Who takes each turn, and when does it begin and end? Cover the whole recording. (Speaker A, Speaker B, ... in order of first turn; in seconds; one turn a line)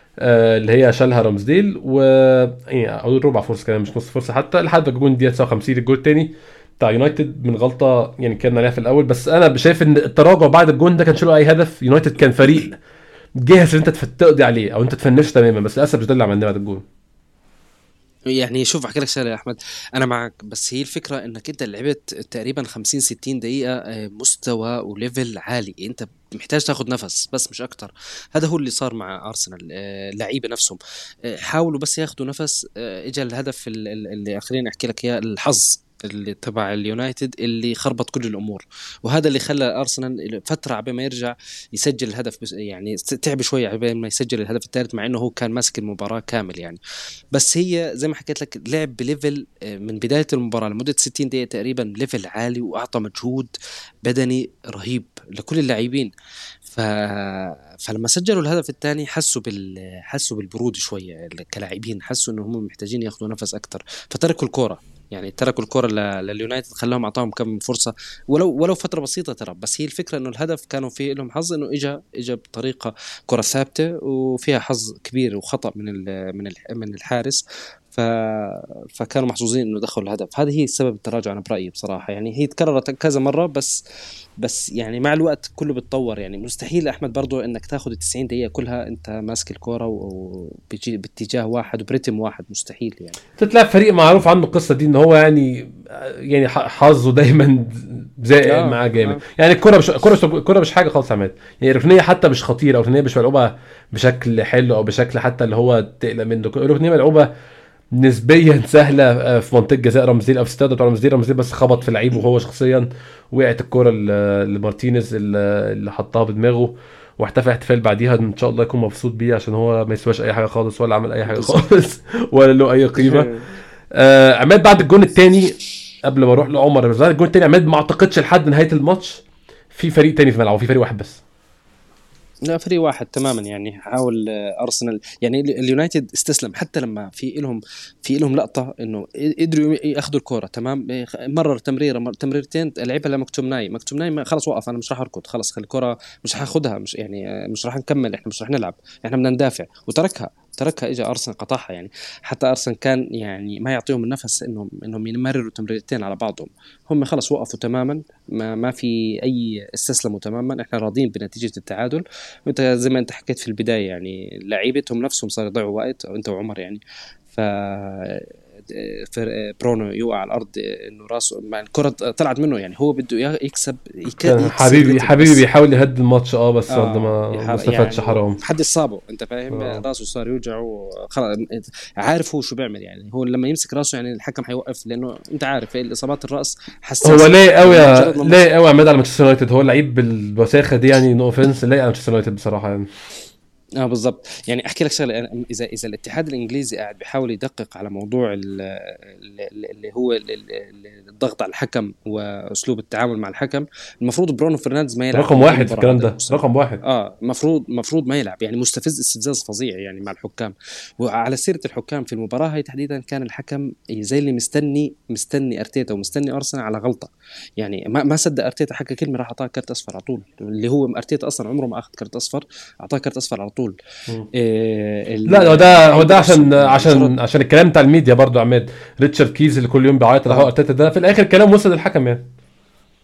Speaker A: 0.2-12.8
Speaker A: 13.4-16.9
Speaker B: 18.3-46.8
Speaker B: 47.3-53.5
Speaker B: 54.0-56.1
Speaker B: 56.7-83.8
Speaker B: 84.4-93.2
Speaker A: 93.4-107.3
Speaker B: 98.4-99.2
Speaker A: 107.9-123.3
Speaker B: 121.3-121.6
Speaker B: 123.0-123.5
Speaker A: 123.9-131.2
Speaker B: 132.5-166.8
Speaker B: 167.3-175.4
Speaker A: 174.2-178.4
Speaker B: 176.7-188.4
Speaker A: 179.5-179.8
Speaker A: 187.1-192.9
Speaker B: 193.8-223.8
Speaker A: 205.1-206.8
Speaker B: 224.3-227.1
Speaker A: 225.3-232.3